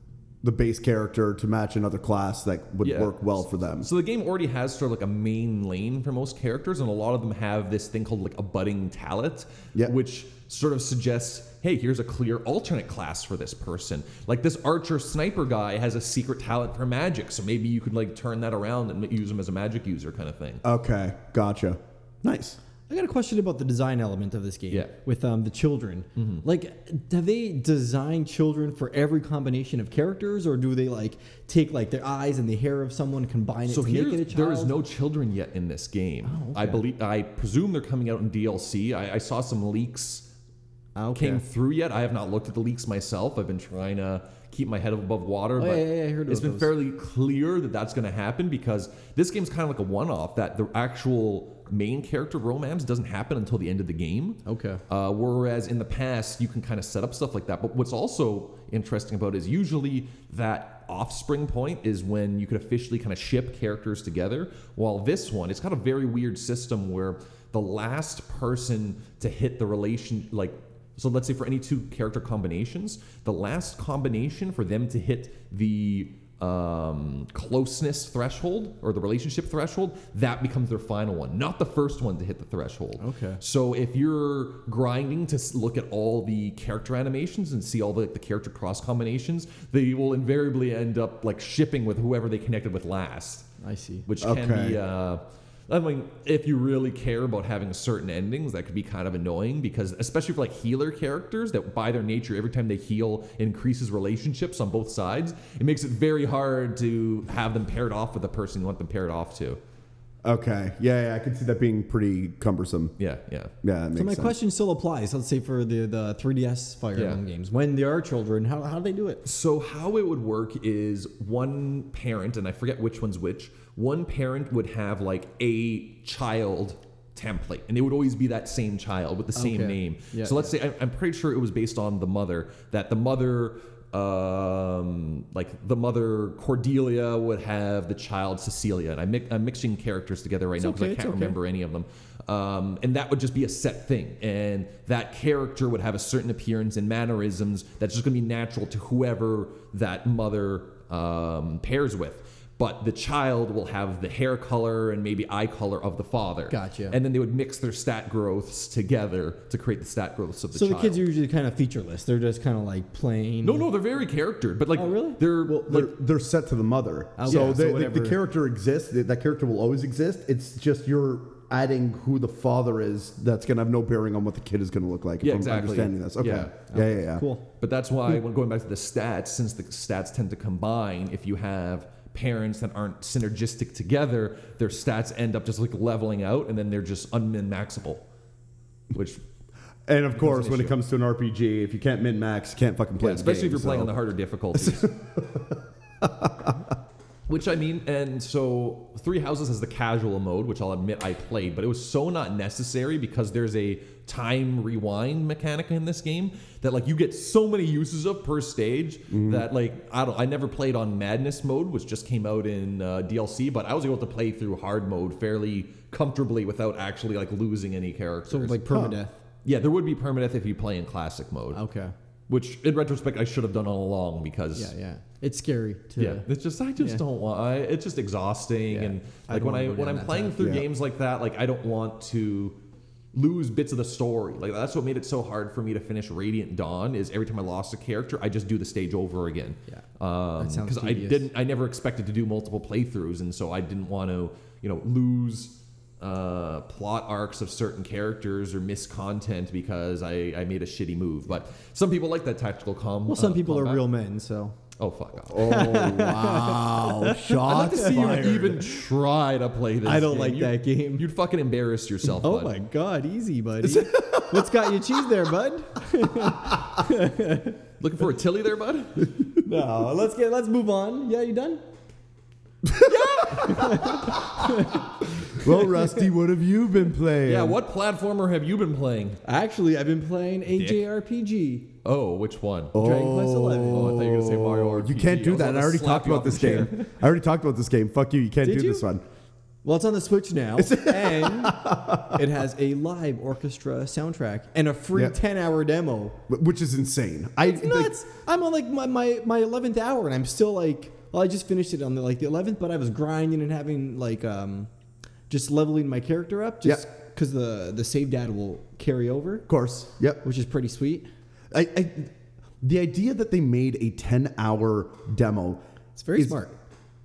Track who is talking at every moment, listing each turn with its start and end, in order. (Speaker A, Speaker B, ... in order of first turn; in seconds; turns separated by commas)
Speaker A: 0.4-3.9, Speaker B: 2.8-20.6, Speaker A: 20.6-22.6, Speaker C: 22.9-34.7, Speaker B: 26.1-26.4, Speaker B: 33.7-40.2, Speaker C: 36.2-36.8, Speaker C: 41.0-41.4, Speaker B: 41.1-93.5, Speaker C: 45.6-46.7, Speaker C: 54.5-54.8, Speaker C: 83.0-83.4, Speaker C: 93.6-94.0, Speaker B: 94.0-109.6, Speaker A: 94.2-94.8, Speaker A: 110.2-112.9, Speaker B: 113.0-113.5, Speaker A: 113.6-114.3, Speaker C: 113.9-119.2, Speaker B: 119.2-161.0, Speaker C: 129.3-130.5, Speaker C: 140.6-141.3, Speaker C: 156.5-157.0, Speaker C: 160.5-163.7, Speaker B: 163.4-165.9, Speaker C: 164.7-165.2, Speaker A: 165.4-177.2, Speaker C: 167.2-168.2, Speaker B: 175.2-176.5, Speaker C: 176.2-177.4, Speaker B: 177.6-188.0, Speaker B: 188.9-189.2, Speaker A: 189.9-193.9, Speaker B: 190.1-190.8, Speaker B: 193.0-194.9, Speaker A: 194.5-196.6, Speaker B: 197.3-218.6, Speaker A: 209.1-209.5, Speaker C: 218.3-219.2, Speaker A: 218.7-218.9, Speaker B: 219.4-221.6, Speaker C: 221.5-221.9, Speaker B: 222.3-224.7, Speaker C: 224.5-226.2, Speaker B: 226.0-232.6, Speaker C: 228.7-230.5, Speaker A: 230.4-230.6, Speaker B: 233.1-253.8, Speaker C: 240.4-241.3, Speaker C: 253.1-254.6, Speaker B: 254.8-255.7, Speaker A: 255.3-258.8, Speaker C: 255.4-258.2, Speaker B: 257.4-262.5, Speaker C: 259.8-261.1, Speaker C: 262.2-267.6, Speaker A: 263.6-264.5, Speaker B: 267.8-269.1, Speaker C: 269.4-271.6, Speaker A: 272.6-274.1, Speaker C: 272.9-274.9, Speaker B: 273.2-273.4, Speaker A: 275.3-277.6, Speaker B: 277.2-279.2, Speaker C: 279.2-281.7, Speaker B: 280.5-280.9, Speaker B: 281.8-282.8, Speaker A: 282.7-289.0, Speaker C: 282.8-284.0, Speaker B: 283.6-286.8, Speaker C: 288.4-288.9, Speaker C: 289.6-296.2, Speaker A: 290.6-292.2, Speaker A: 296.3-297.9, Speaker C: 297.4-304.7, Speaker C: 305.3-309.5, Speaker A: 309.5-310.2, Speaker C: 310.2-311.1, Speaker A: 311.5-315.6, Speaker C: 315.9-316.5